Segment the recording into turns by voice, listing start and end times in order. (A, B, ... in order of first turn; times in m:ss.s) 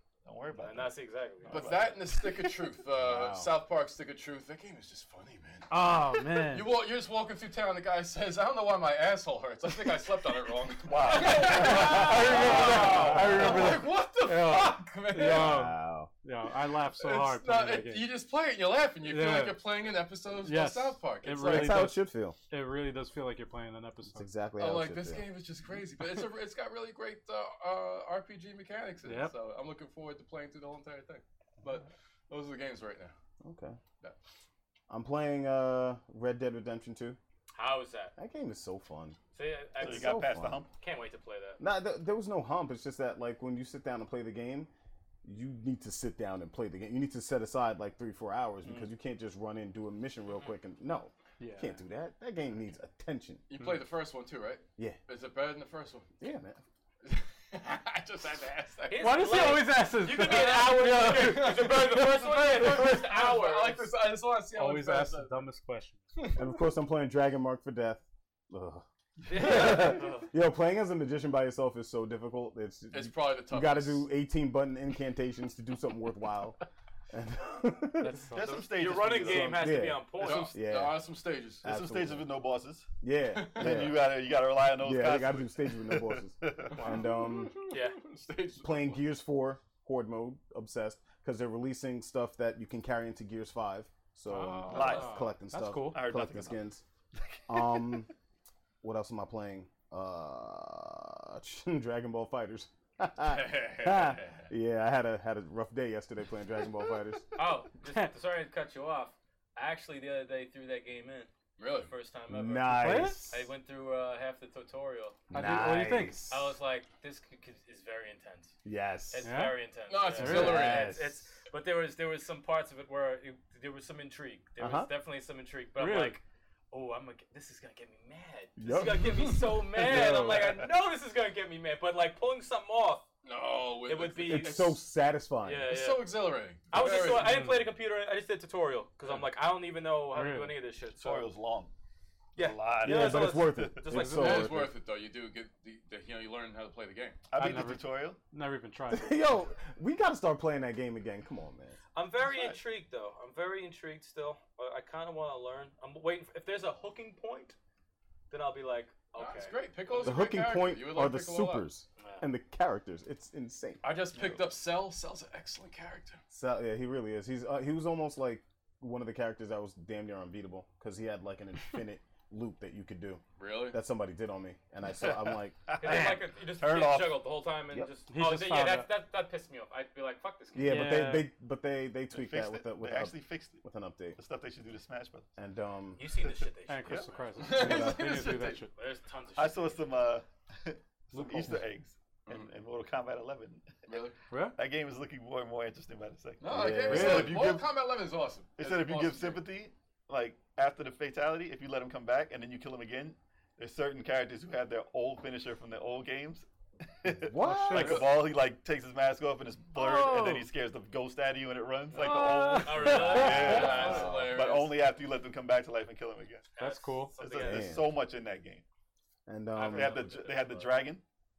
0:00.2-0:02.5 A
0:00.5-0:01.8 B
0:01.5-0:05.7 C
0:03.0-0:03.5 D
0:05.7-0:06.7 E
0:06.4-0:15.7 C
0:10.8-0:13.0 A
0:11.2-0:18.1 E
0:11.6-0:13.6 D
0:15.2-0:16.1 D
0:17.0-0:21.9 C
0:19.0-0:19.6 E
0:20.4-0:24.3 E
0:21.3-0:22.4 D
0:24.1-0:25.3 D
0:24.6-0:33.1 C
0:29.0-0:29.3 E
0:33.4-0:33.8 D
0:34.9-0:37.2 D
0:37.6-0:38.1 B
0:38.2-0:39.2 D
0:39.3-0:41.6 B
0:39.8-0:40.6 D
0:39.8-0:40.7 A
0:41.6-0:44.7 D
0:45.2-0:53.4 D
0:51.4-0:51.8 E
0:53.5-0:56.1 C
0:56.2-0:56.6 D
0:57.0-1:05.4 C
0:58.9-1:03.9 B
0:58.9-1:02.7 E
1:04.5-1:06.0 E
1:06.2-1:06.4 C
1:06.4-1:18.2 D
1:09.3-1:10.2 B
1:12.9-1:14.1 C
1:18.0-1:18.6 E
1:18.3-1:19.8 A
1:18.4-1:20.6 B
1:19.2-1:21.1 D
1:20.2-1:21.7 C
1:21.6-1:22.3 D
1:21.6-1:22.9 A
1:23.0-1:24.2 D
1:23.3-1:23.9 C
1:23.6-1:27.0 A
1:24.7-1:27.6 D
1:26.7-1:29.0 C
1:27.7-1:28.0 B
1:28.6-1:36.8 D
1:34.3-1:36.0 E
1:34.7-1:36.6 A
1:37.2-1:38.0 A
1:37.5-1:38.1 D
1:38.8-1:47.3 D
1:43.2-1:44.5 C
1:47.4-1:55.2 B
1:47.8-1:48.1 E
1:51.6-1:51.9 C
1:52.3-1:53.5 D
1:52.7-1:53.2 E
1:55.3-1:56.6 D
1:55.3-1:56.2 E
1:56.3-1:58.5 B
1:58.6-1:59.3 D
1:59.1-2:13.0 B
1:59.2-1:59.6 E
1:59.9-2:01.0 C
2:00.2-2:00.7 E
2:00.2-2:01.2 D
2:04.6-2:04.9 D
2:05.8-2:06.2 E
2:08.6-2:10.7 D
2:13.2-2:14.8 C
2:13.8-2:14.8 B
2:14.2-2:15.8 D
2:15.4-2:16.2 B
2:15.6-2:17.4 C
2:16.7-2:21.3 B
2:16.9-2:17.7 E
2:20.1-2:20.6 E
2:20.9-2:21.7 A
2:22.3-2:24.6 B
2:22.4-2:23.8 A
2:22.8-2:24.7 D
2:23.9-2:24.4 E
2:24.1-2:27.2 C
2:27.3-2:28.2 A
2:27.3-2:29.2 E
2:28.9-2:31.8 D
2:31.9-2:37.6 B
2:32.2-2:32.6 A
2:38.3-2:39.6 B
2:39.1-2:41.7 C
2:40.0-2:43.8 D
2:43.8-2:46.2 C
2:44.1-2:44.5 A
2:46.3-2:55.6 D
2:53.4-2:53.8 C
2:55.7-2:57.4 A
2:55.8-3:01.0 B
2:58.1-2:58.9 E
3:00.5-3:04.2 D
3:00.6-3:01.3 E
3:02.1-3:03.6 A
3:04.2-3:05.3 A
3:05.4-3:06.0 D
3:06.0-3:07.5 B
3:06.7-3:08.7 E
3:07.4-3:08.6 C
3:07.6-3:08.0 D
3:08.7-3:09.8 B
3:09.4-3:14.0 A
3:11.1-3:11.6 E
3:13.9-3:14.2 C
3:14.3-3:14.6 E
3:14.5-3:17.7 A
3:16.4-3:19.4 C
3:16.5-3:17.5 D
3:18.6-3:26.4 A
3:27.0-3:36.5 A
3:27.0-3:28.0 D
3:27.3-3:28.1 E
3:29.7-3:30.5 E
3:31.9-3:33.9 E
3:32.6-3:34.2 B
3:32.8-3:34.0 D
3:33.1-3:34.8 C
3:36.6-3:37.8 B
3:36.6-3:37.1 E
3:37.2-3:38.6 A
3:37.4-3:37.9 D
3:39.2-3:40.0 D
3:39.5-3:40.7 B
3:39.6-3:41.0 A